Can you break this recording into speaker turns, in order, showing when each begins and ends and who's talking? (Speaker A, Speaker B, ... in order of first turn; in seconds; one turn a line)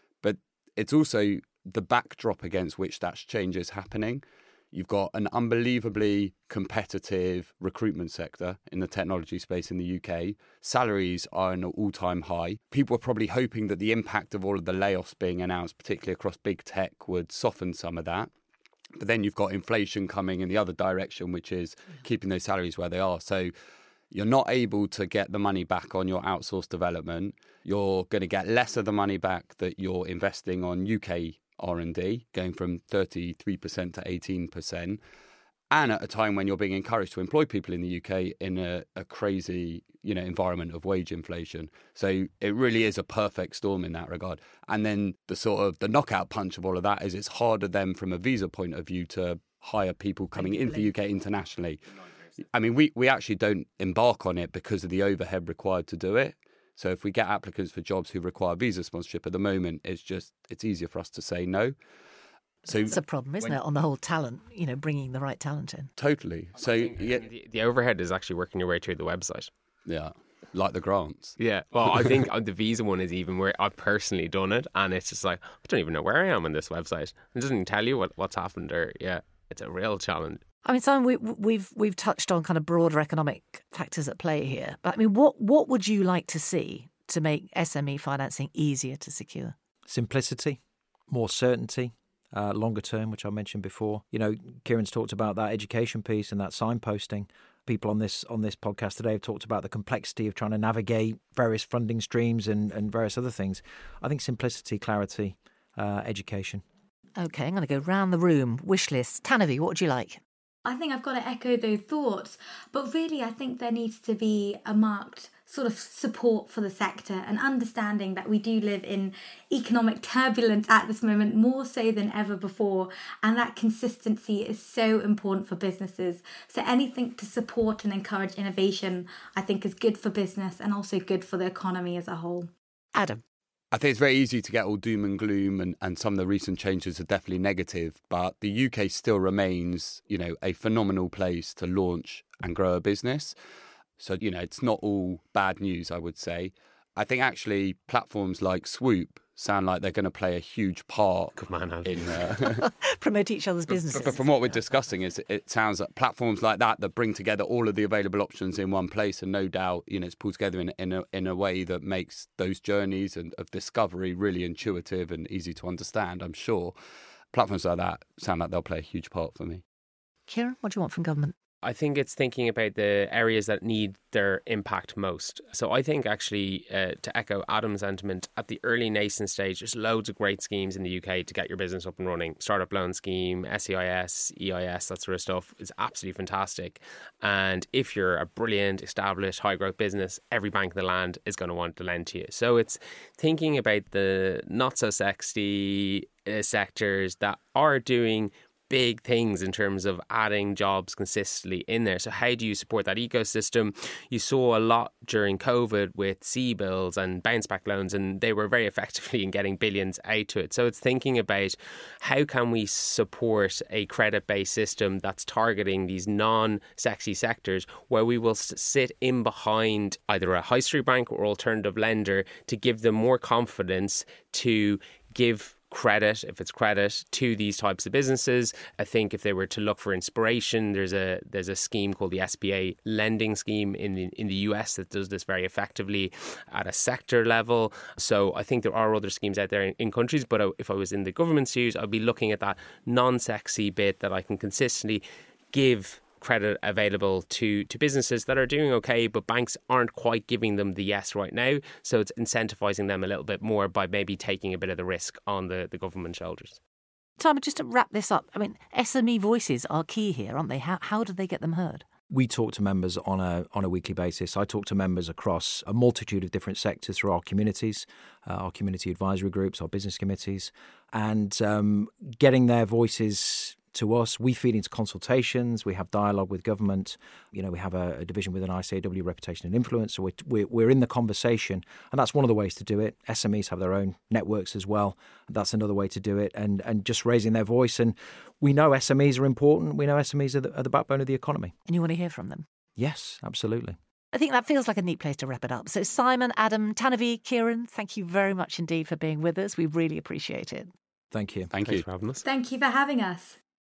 Speaker A: 0.2-18.3
Speaker A: 19.0-23.5
Speaker A: 24.1-35.0
Speaker A: 35.7-51.8
Speaker A: 52.5-61.8
Speaker A: 62.6-63.6
Speaker B: 62.9-65.9
Speaker A: 66.0-67.3
Speaker C: 67.0-69.5
Speaker A: 69.9-71.4
Speaker C: 71.4-80.4
Speaker A: 71.9-72.2
Speaker B: 80.7-89.5
Speaker D: 89.9-106.6
Speaker B: 107.2-110.2
Speaker E: 110.7-132.5
Speaker B: 132.9-133.2
Speaker A: 133.7-143.3
Speaker A: 144.0-152.6
Speaker C: 151.4-152.3
Speaker B: 152.6-154.5
Speaker A: 153.7-166.7
Speaker A: 167.3-169.6
Speaker B: 170.3-171.3
Speaker C: 171.6-256.6
Speaker B: 257.2-261.9
Speaker D: 262.1-291.5
Speaker B: 291.7-292.5
Speaker D: 292.8-293.8
Speaker B: 294.1-300.7
Speaker D: 301.1-301.5
Speaker A: 301.5-301.9
Speaker C: 301.6-302.2
Speaker E: 302.2-303.4